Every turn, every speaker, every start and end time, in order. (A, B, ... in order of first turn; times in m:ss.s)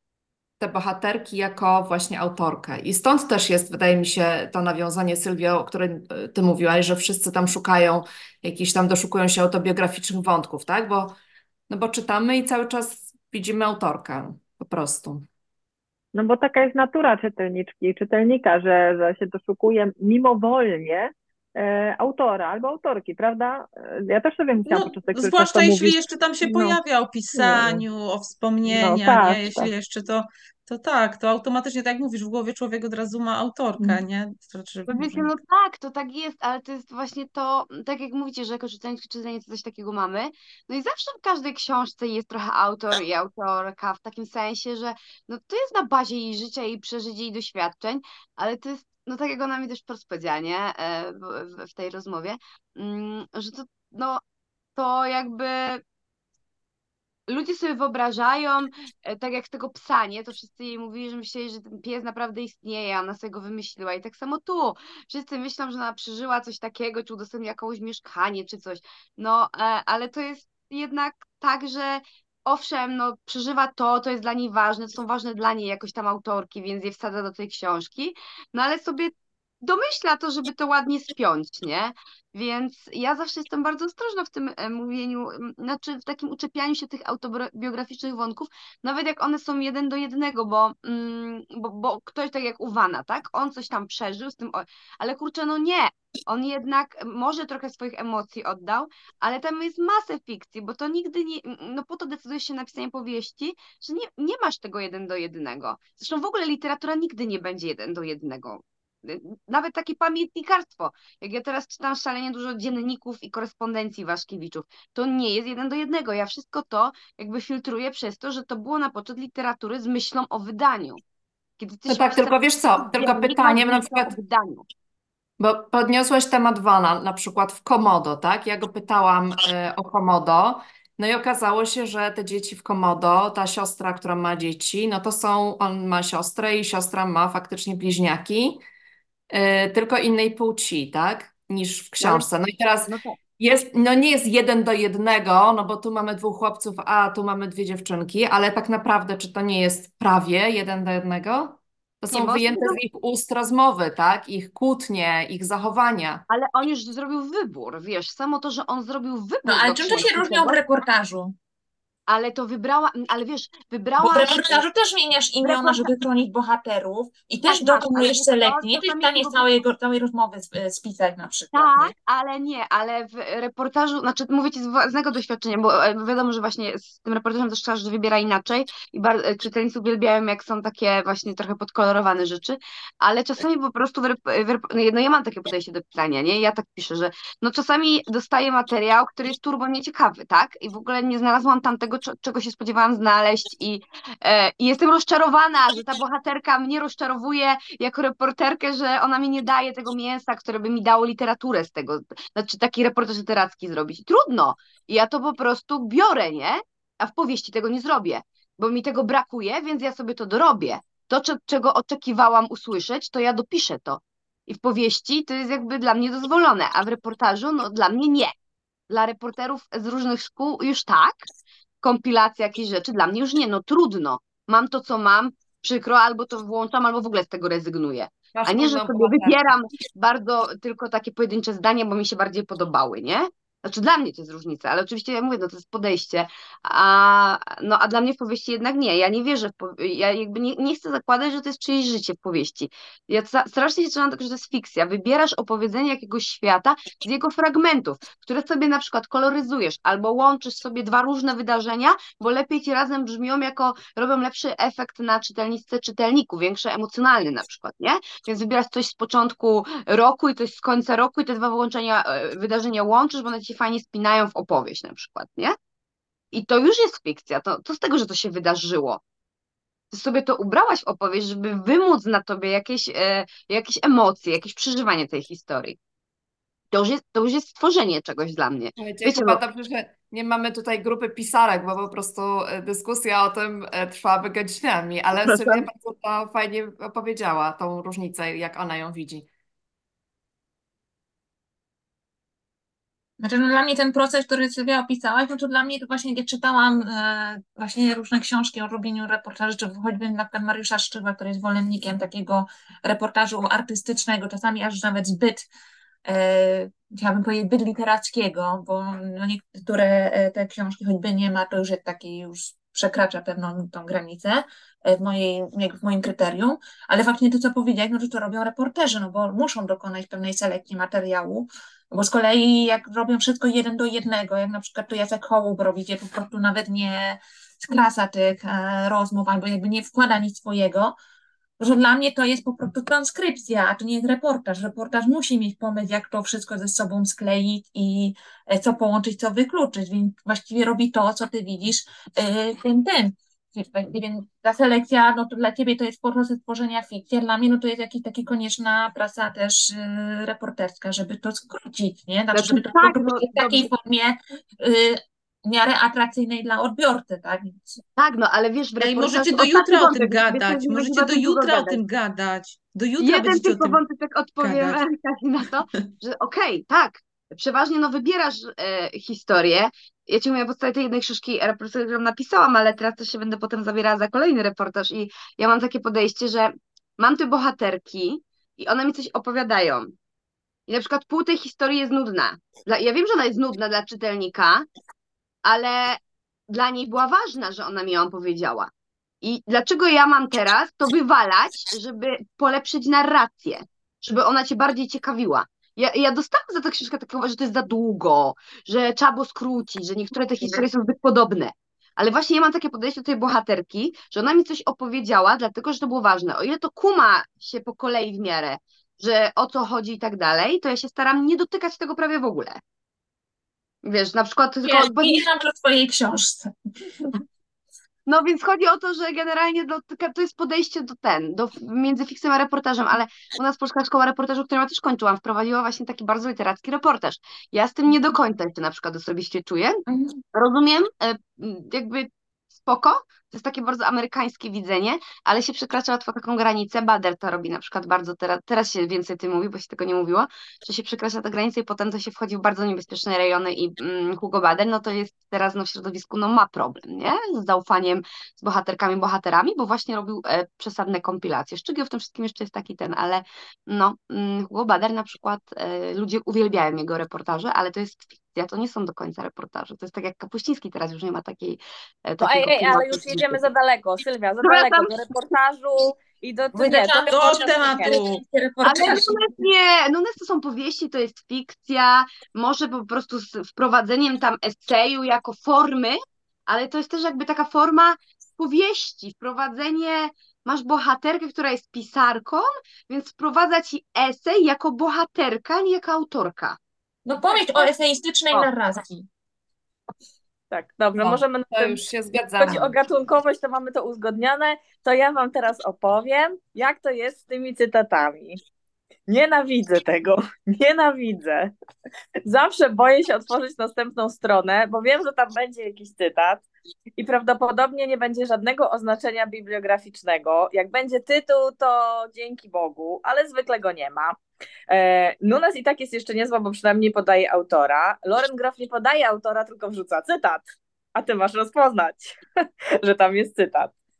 0:00.6-0:11.2 A
0:11.7-0:15.2 A
0:16.1-0:26.8 B
0:24.6-0:35.3 C
0:27.3-0:27.8 B
0:28.6-0:29.7 B
0:34.9-0:54.2 D
0:54.8-0:55.8 D
0:57.3-2:01.0 D
2:01.6-2:04.6 D
2:01.9-2:04.1 A
2:05.4-2:18.6 A
2:19.3-2:36.2 A
2:22.0-2:22.3 D
2:22.9-2:23.2 D
2:32.1-2:32.8 D
2:36.3-2:40.6 D
2:39.4-2:41.3 E
2:42.1-2:44.6 D
2:44.0-2:51.9 E
2:45.4-2:45.9 D
2:47.5-2:49.4 D
2:51.5-3:38.3 D
3:38.9-3:41.3 D
3:41.8-4:25.6 D
3:48.3-3:49.4 A
4:26.3-4:29.0 D
4:29.9-4:35.8 D
4:36.7-4:39.4 D
4:38.8-4:49.3 A
4:53.2-5:05.5 E
5:06.0-5:30.9 E
5:31.6-5:57.8 E
5:52.3-5:53.7 D
5:58.0-6:01.8 D
5:58.8-6:03.8 C
6:03.0-6:19.9 D
6:04.4-6:04.8 C
6:20.7-6:24.7 D
6:25.4-6:28.7 D
6:29.2-6:52.6 D
6:53.8-6:55.2 D
6:54.6-6:56.5 E
6:58.1-7:12.1 D
7:09.9-7:10.2 E
7:12.6-7:43.4 D
7:42.2-7:47.9 F
7:44.4-7:44.9 D
7:46.5-7:49.4 E
7:47.1-7:48.2 C
7:48.6-8:06.6 D
8:07.0-8:09.0 E
8:10.5-8:11.8 F
8:11.0-8:12.7 A
8:12.4-8:18.4 F
8:19.1-8:21.5 F
8:22.2-8:26.4 F
8:27.0-8:34.2 F
8:34.7-8:42.2 F
8:42.8-8:43.7 F